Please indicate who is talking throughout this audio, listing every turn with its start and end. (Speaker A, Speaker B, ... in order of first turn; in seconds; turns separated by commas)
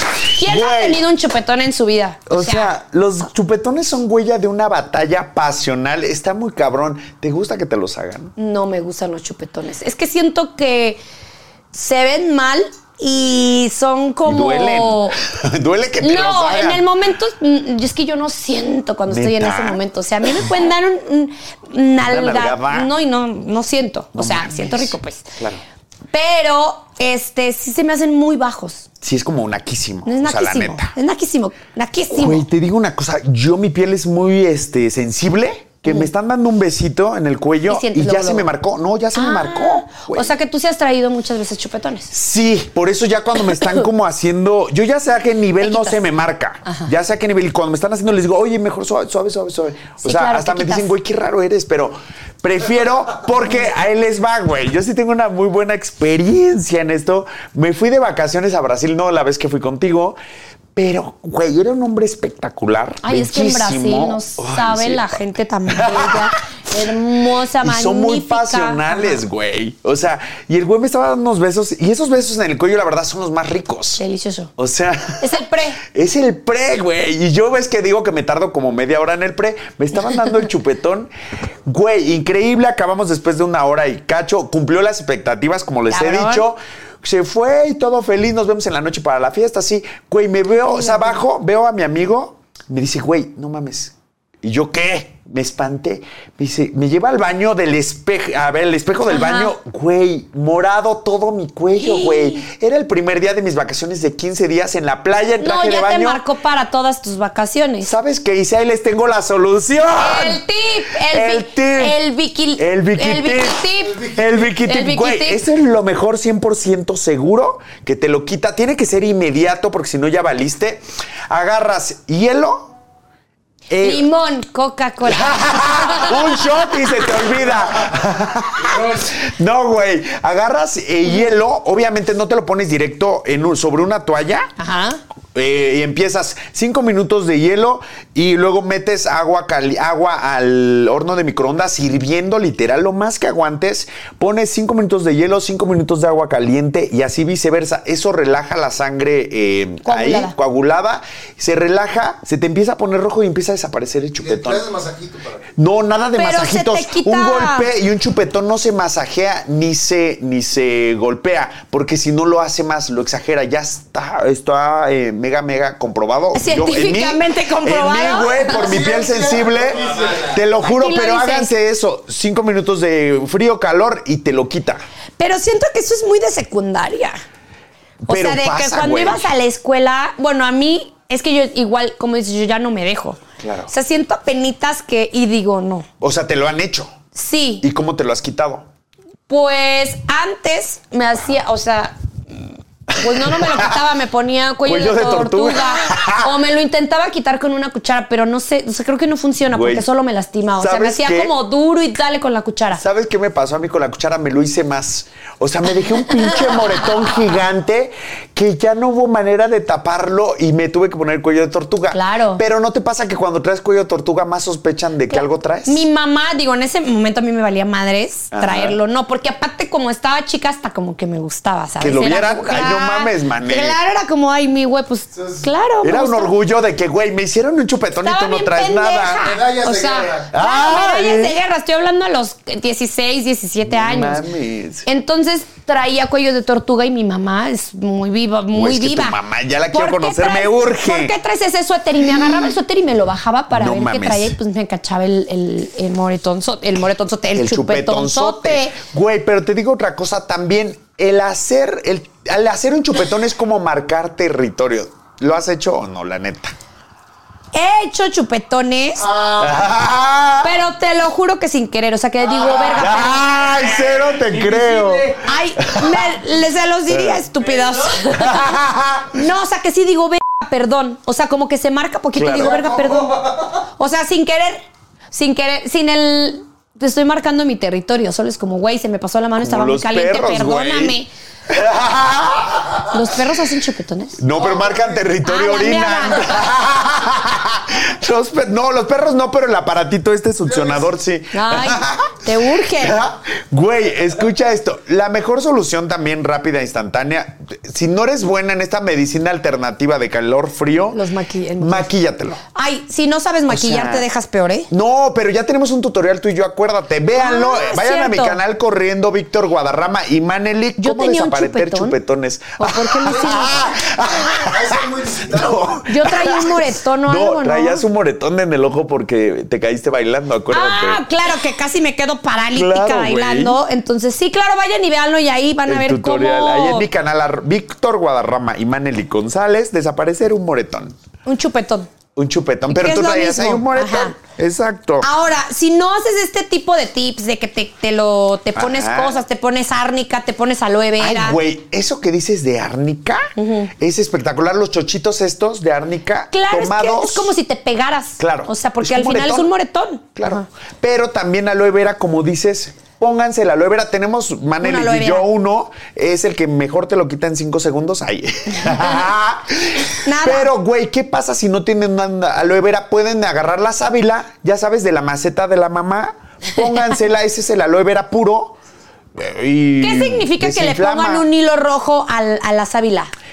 Speaker A: 0.3-2.7, Speaker B: 0.4-1.0, Speaker B: 2.3-8.3, Speaker A: 8.4-11.0, Speaker A: 11.7-15.2, Speaker B: 14.2-16.8, Speaker A: 16.0-25.2, Speaker B: 19.1-19.8, Speaker B: 22.0-22.9, Speaker B: 24.1-25.6, Speaker A: 26.1-28.9, Speaker B: 29.0-30.9, Speaker A: 30.1-32.4, Speaker B: 32.1-40.3, Speaker A: 37.7-38.5, Speaker A: 39.1-42.1, Speaker B: 42.1-60.2, Speaker A: 45.6-46.0, Speaker A: 50.0-50.9, Speaker B: 60.7-66.3, Speaker A: 63.0-69.2, Speaker B: 67.6-74.0, Speaker A: 74.0-74.5, Speaker B: 74.6-81.1, Speaker A: 75.2-75.8, Speaker B: 81.6-106.2, Speaker A: 85.9-86.5, Speaker A: 90.7-91.2, Speaker A: 99.1-99.5, Speaker A: 101.8-102.4, Speaker A: 105.4-107.9, Speaker B: 107.8-110.4, Speaker A: 110.0-114.0, Speaker B: 111.0-112.0, Speaker B: 112.6-122.7, Speaker C: 113.8-114.5, Speaker A: 114.6-115.4, Speaker B: 123.7-124.1, Speaker A: 123.8-126.4, Speaker B: 125.0-134.5, Speaker C: 128.7-129.1, Speaker A: 134.6-135.0, Speaker B: 135.3-154.6, Speaker A: 149.8-150.3, Speaker C: 154.2-155.5, Speaker B: 155.6-174.8, Speaker A: 156.2-157.7, Speaker A: 166.3-168.9, Speaker C: 168.5-170.4, Speaker A: 170.6-171.5, Speaker A: 175.2-177.2, Speaker B: 178.1-179.3, Speaker A: 178.1-185.9, Speaker B: 183.4-183.7, Speaker B: 186.0-187.0, Speaker A: 187.1-187.6, Speaker B: 187.6-188.7, Speaker A: 189.3-202.8, Speaker B: 193.0-193.8, Speaker B: 194.6-196.3, Speaker B: 199.5-199.9, Speaker B: 200.6-201.3, Speaker B: 202.7-215.8, Speaker A: 211.9-212.4, Speaker A: 215.1-226.3, Speaker B: 218.3-218.8, Speaker B: 221.8-223.8, Speaker C: 225.1-225.5, Speaker B: 225.8-229.3, Speaker A: 228.0-234.2, Speaker C: 229.2-230.3, Speaker B: 230.3-231.4, Speaker B: 233.6-234.8, Speaker A: 234.8-239.2, Speaker B: 238.5-241.2, Speaker A: 239.7-248.8, Speaker B: 242.1-242.5, Speaker B: 243.5-244.4, Speaker B: 247.3-256.5, Speaker A: 257.5-259.1, Speaker C: 259.0-259.7, Speaker B: 259.4-260.6, Speaker A: 260.4-263.3, Speaker C: 262.2-265.1, Speaker B: 262.7-266.2, Speaker A: 265.1-268.6, Speaker B: 266.9-267.2, Speaker B: 268.1-269.2, Speaker A: 269.1-281.1, Speaker B: 272.1-272.7, Speaker C: 272.4-273.1, Speaker B: 279.4-281.0, Speaker B: 281.5-283.0, Speaker A: 282.9-284.2, Speaker B: 284.2-301.0, Speaker C: 284.4-285.1, Speaker A: 285.2-286.5, Speaker C: 290.4-290.9, Speaker A: 291.3-293.0, Speaker A: 300.9-301.9, Speaker B: 301.6-302.4, Speaker A: 302.5-304.7, Speaker B: 303.5-304.1, Speaker B: 304.7-321.0, Speaker A: 307.2-308.4, Speaker A: 310.8-311.9, Speaker A: 312.6-313.7, Speaker C: 313.1-315.8, Speaker A: 315.9-317.8, Speaker A: 320.5-326.9, Speaker B: 322.5-323.6, Speaker B: 325.6-330.9, Speaker A: 331.2-331.9, Speaker B: 332.1-335.1, Speaker A: 332.7-334.1, Speaker A: 335.0-341.4, Speaker B: 338.5-339.2, Speaker B: 341.0-347.3, Speaker A: 343.4-343.7, Speaker A: 346.3-350.4, Speaker B: 348.2-349.5, Speaker B: 350.1-368.6, Speaker A: 354.6-355.2, Speaker A: 358.6-359.0, Speaker A: 360.0-360.5, Speaker B: 369.1-371.3, Speaker A: 369.8-373.1